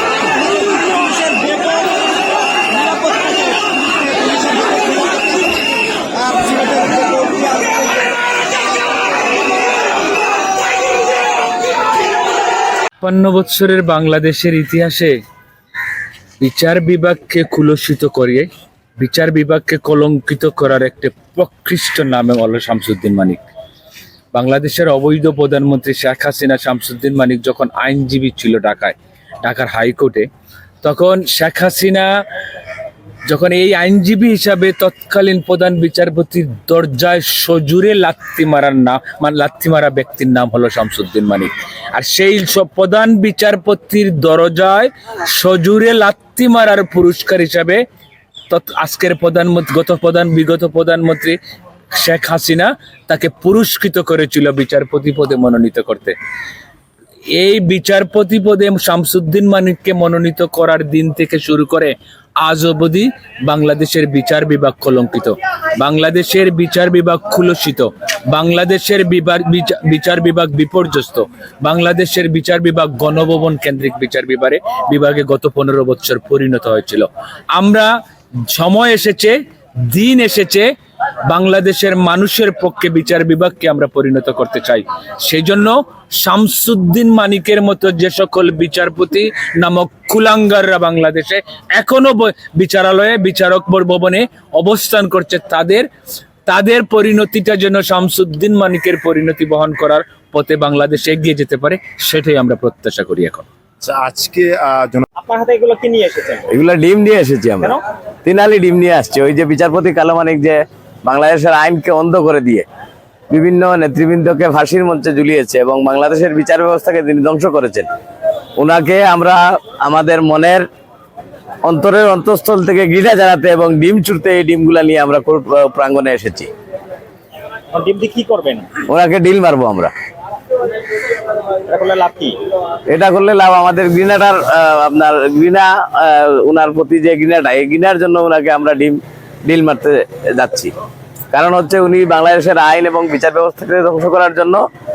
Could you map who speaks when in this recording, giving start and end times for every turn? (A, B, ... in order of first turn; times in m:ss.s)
0:00.7-0:01.8 A
0:06.3-0:07.5 A
0:13.0-0:15.2 B
0:16.4-0:23.4 B
0:24.3-0:30.3 B
0:30.8-0:32.1 B
0:33.3-0:47.8 B
0:48.5-0:51.4 B
0:51.9-0:56.2 B
0:57.3-1:17.9 B
1:18.5-1:20.7 B
1:21.3-1:35.9 B
1:36.5-1:43.5 B
1:43.8-1:45.0 A
1:45.2-1:46.5 C
1:46.5-1:52.6 D
1:53.3-1:57.9 D
1:58.6-2:00.6 D
2:01.6-2:06.5 D
2:07.7-2:08.8 C
2:08.8-2:09.9 D
2:11.6-2:12.4 C
2:12.9-2:20.7 D
2:21.3-2:24.6 D